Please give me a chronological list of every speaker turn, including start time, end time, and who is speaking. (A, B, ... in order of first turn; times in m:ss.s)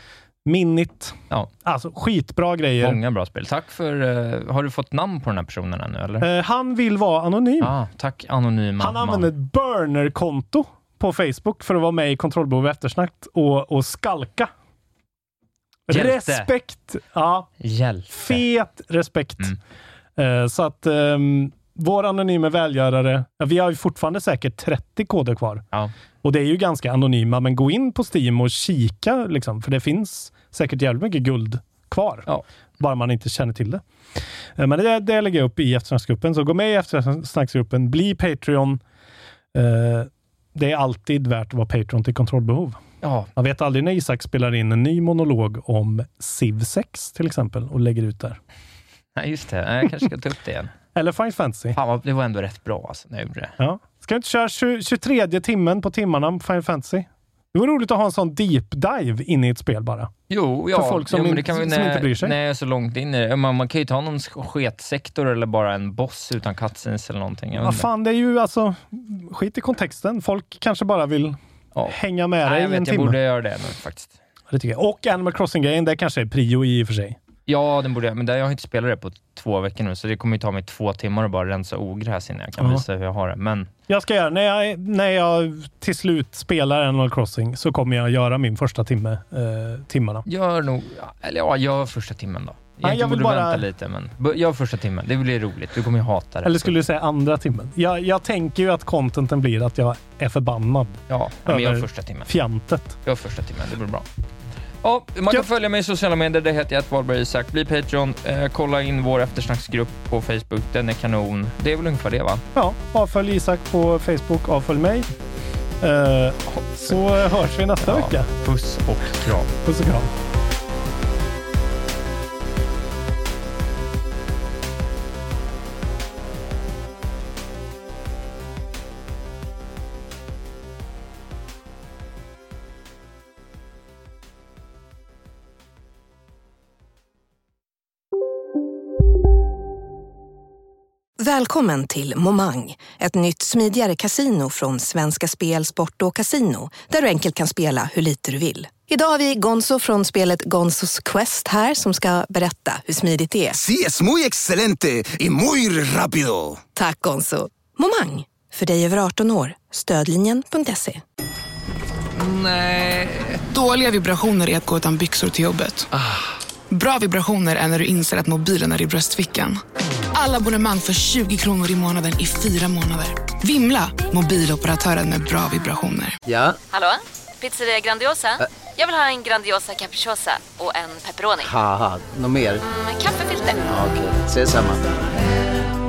0:00.4-0:03.0 A
0:02.8-0:06.3 B
0:06.2-0:07.7 A
0:07.6-0:09.3 B
0:08.8-0:14.5 A
0:15.9-0:17.5 A
0:15.9-0:16.5 B
0:17.6-0:18.4 B
0:18.1-0:19.5 A
0:20.2-0:25.6 A
0:26.2-0:32.3 A
0:32.8-0:38.8 A
0:39.5-0:42.8 A
0:43.0-0:43.3 B
0:43.4-0:48.4 A
0:49.2-0:50.7 B
0:50.9-0:51.8 A
0:51.7-0:53.6 B
0:53.6-1:00.1 A
1:00.3-1:07.9 B
1:00.7-1:02.4 A
1:07.6-1:11.4 A
1:11.7-1:14.1 B
1:11.9-1:13.2 A
1:14.5-1:17.2 A
1:17.5-1:23.7 B
1:22.6-1:22.8 A
1:23.9-1:30.3 A
1:30.3-1:36.8 B
1:32.8-1:33.6 A
1:36.4-1:43.0 A
1:41.1-1:42.3 B
1:43.0-1:44.0 B
1:44.8-1:52.4 B
1:52.6-1:55.1 A
1:55.8-1:58.3 A
1:57.8-1:59.5 B
1:59.6-2:00.1 A
2:21.3-2:33.6 C
2:33.5-2:36.6 D
2:36.8-2:41.0 C
2:42.2-2:45.9 E
2:46.7-2:49.6 E
2:50.1-2:56.2 E
2:56.2-2:56.6 F
2:56.7-3:01.5 G
3:01.4-3:02.6 F
3:02.6-3:03.8 G
3:03.7-3:04.9 F